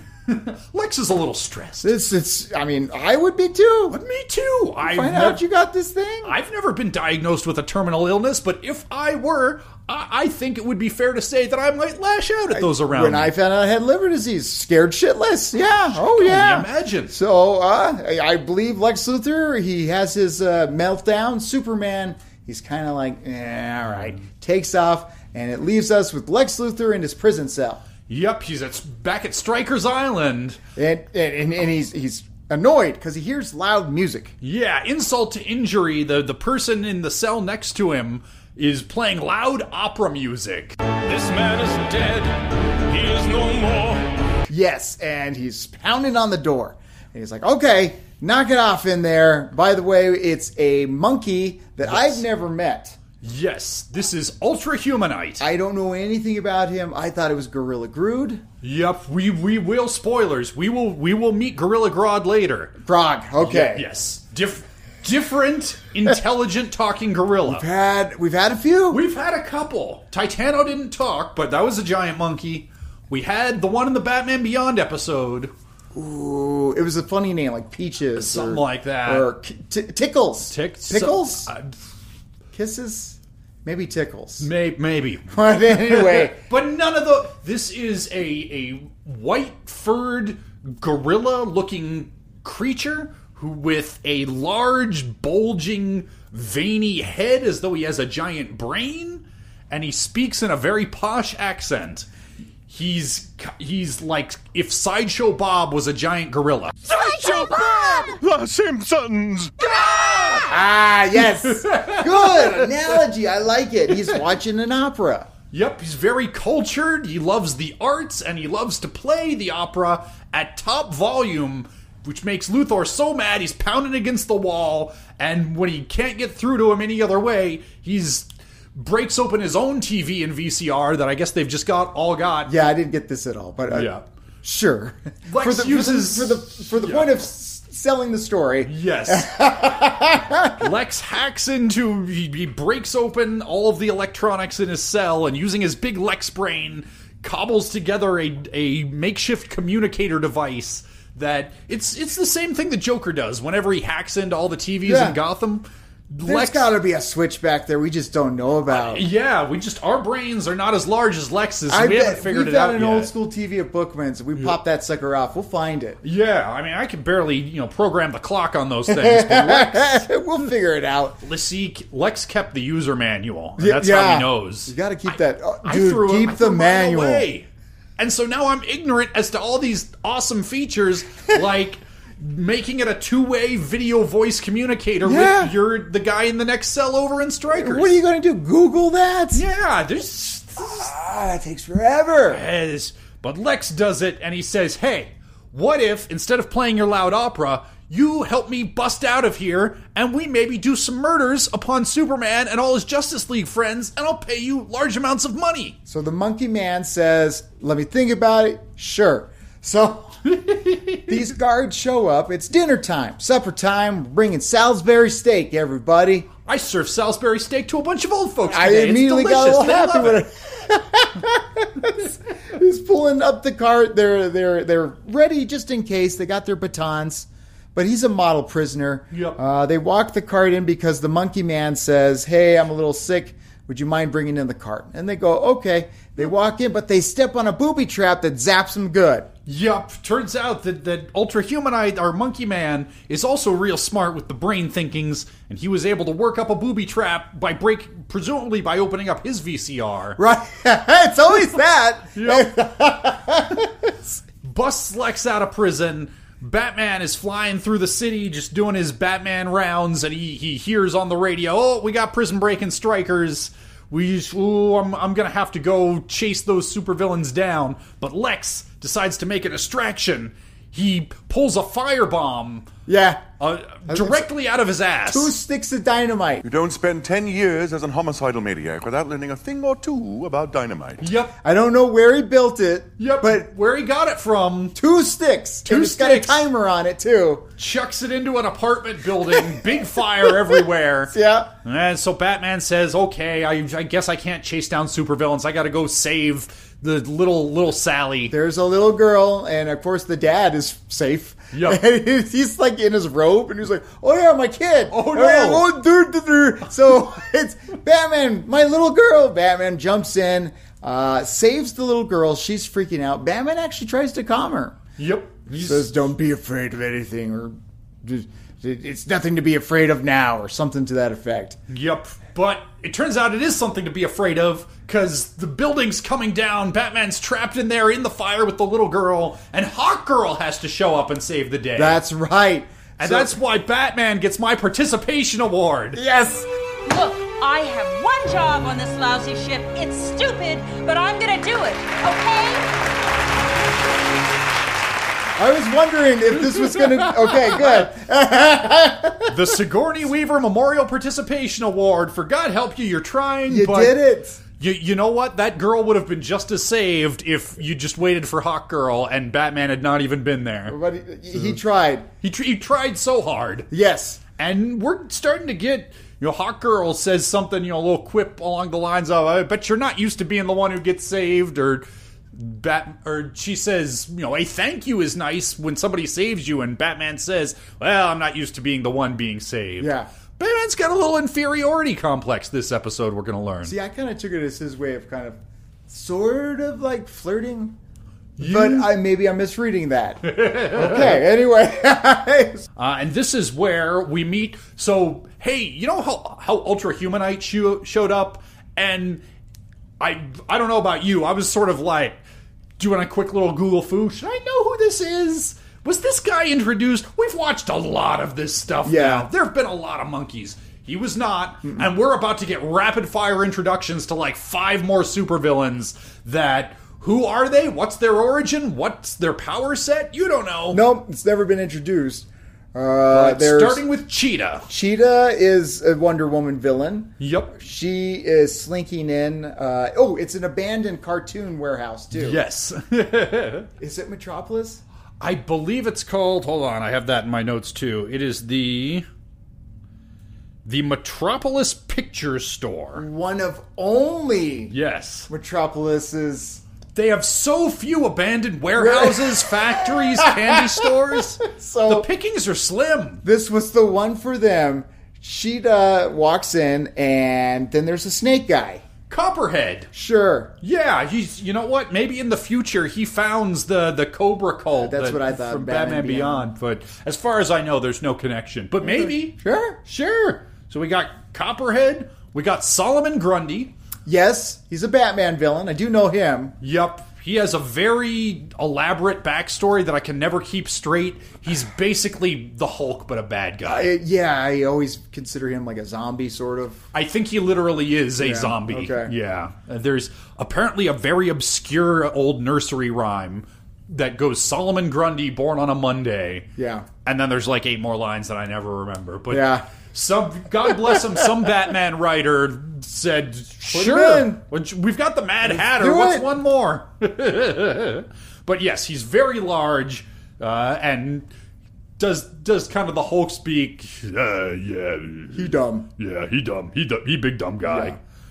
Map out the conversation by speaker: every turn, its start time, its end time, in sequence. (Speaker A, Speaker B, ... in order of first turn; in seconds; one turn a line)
Speaker A: 0.3-1.9
Speaker B: 1.8-4.0
Speaker A: 3.9-5.4
Speaker B: 4.8-6.3
Speaker A: 6.2-13.3
Speaker B: 12.5-27.8
Speaker A: 15.9-17.2
Speaker A: 28.1-30.6
Speaker B: 30.8-34.3
Speaker A: 34.4-40.8
Speaker C: 41.1-42.3
Speaker A: 41.8-42.0
Speaker C: 42.9-44.0
Speaker A: 43.1-43.6
Speaker B: 44.5-53.0
Speaker A: 51.8-52.2
Speaker A: 53.2-55.4
Speaker B: 55.4-58.4
Speaker A: 58.6-62.8
Speaker B: 62.8-63.9
Speaker A: 63.4-67.7
Speaker B: 67.4-69.0
Speaker A: 68.9-75.5
Speaker B: 75.9-81.5
Speaker A: 78.1-79.3
Speaker A: 80.5-81.7
Speaker B: 82.5-84.5
Speaker A: 84.4-102.1
Speaker B: 85.3-86.3
Speaker A: 102.7-106.9
Speaker D: 106.9-109.5
Speaker E: 107.3-108.0
Speaker E: 109.8-110.4
Speaker B: 110.4-115.3
Speaker A: 111.2-113.0
Speaker A: 115.5-132.5
Speaker B: 132.4-133.9
Speaker A: 133.7-134.1
Speaker B: 134.4-140.7
Speaker A: 135.2-137.2
Speaker A: 138.6-139.4
Speaker A: 140.5-156.7
Speaker B: 154.8-155.2
Speaker B: 156.2-159.1
Speaker A: 158.7-163.1
Speaker B: 161.7-166.0
Speaker A: 166.0-170.0
Speaker B: 168.9-171.2
Speaker A: 171.2-187.9
Speaker B: 173.6-177.3
Speaker B: 185.0-185.5
Speaker B: 187.5-189.4
Speaker A: 189.3-190.9
Speaker B: 190.6-192.4
Speaker A: 192.3-205.8
Speaker B: 205.8-210.3
Speaker A: 210.3-211.1
Speaker B: 211.1-216.3
Speaker A: 216.4-220.2
Speaker B: 218.5-239.3
Speaker A: 229.1-229.4
Speaker A: 239.4-250.2
Speaker B: 250.2-254.1
Speaker A: 252.1-252.5
Speaker A: 254.4-272.7
Speaker B: 272.9-273.2
Speaker A: 273.4-275.3
Speaker B: 273.8-274.3
Speaker B: 275.0-276.4
Speaker D: 276.4-281.0
Speaker A: 281.0-281.3
Speaker B: 281.4-283.5
Speaker A: 283.0-284.8
Speaker B: 284.7-287.4
Speaker A: 285.6-286.5
Speaker A: 287.6-298.3
Speaker B: 289.3-291.5
Speaker B: 298.3-314.8
Speaker A: 301.5-301.8
Speaker A: 304.9-305.7
Speaker A: 315.0-315.9
Speaker B: 315.5-321.6
Speaker A: 321.7-332.0
Speaker B: 331.8-333.4
Speaker A: 333.0-336.0
Speaker B: 335.9-336.5
Speaker E: 336.9-342.6
Speaker B: 345.4-349.4
Speaker A: 346.5-347.8
Speaker A: 349.3-354.0
Speaker B: 353.5-354.4
Speaker A: 354.6-360.8
Speaker B: 360.7-362.1
Speaker A: 362.2-363.7
Speaker B: 363.7-364.2
Speaker A: 364.4-383.7
Speaker B: 379.8-380.1
Speaker B: 383.6-387.8
Speaker A: 388.4-388.9
Speaker B: 388.4-392.6
Speaker A: 390.2-391.2
Speaker A: 392.8-399.2
Speaker A: 400.0-402.2
Speaker A: 402.8-420.8
Speaker B: 408.8-409.3
Speaker B: 420.7-423.8
Speaker A: 423.1-424.7
Speaker B: 424.7-432.4
Speaker A: 427.2-427.6
Speaker A: 432.1-433.7
Speaker B: 433.8-434.8
Speaker A: 435.2-439.1
Speaker A: 440.6-443.0
Speaker B: 442.9-444.7
Speaker A: 444.7-445.3
Speaker B: 445.3-446.6
Speaker A: 446.9-453.2
Speaker B: 448.8-452.1
Speaker B: 453.2-458.8
Speaker A: 459.1-459.9
Speaker B: 459.9-460.5
Speaker A: 460.6-473.7
Speaker B: 464.8-466.5
Speaker B: 468.8-469.8
Speaker B: 474.1-476.5
Speaker A: 476.6-483.9
Speaker B: 483.6-486.8
Speaker A: 486.9-496.5
Speaker B: 488.2-489.1
Speaker B: 496.6-496.9
Speaker A: 497.0-511.3
Speaker B: 499.3-499.6
Speaker B: 503.7-504.4
Speaker B: 505.4-506.3
Speaker A: 512.0-518.0
Speaker B: 515.3-515.9
Speaker B: 517.6-518.0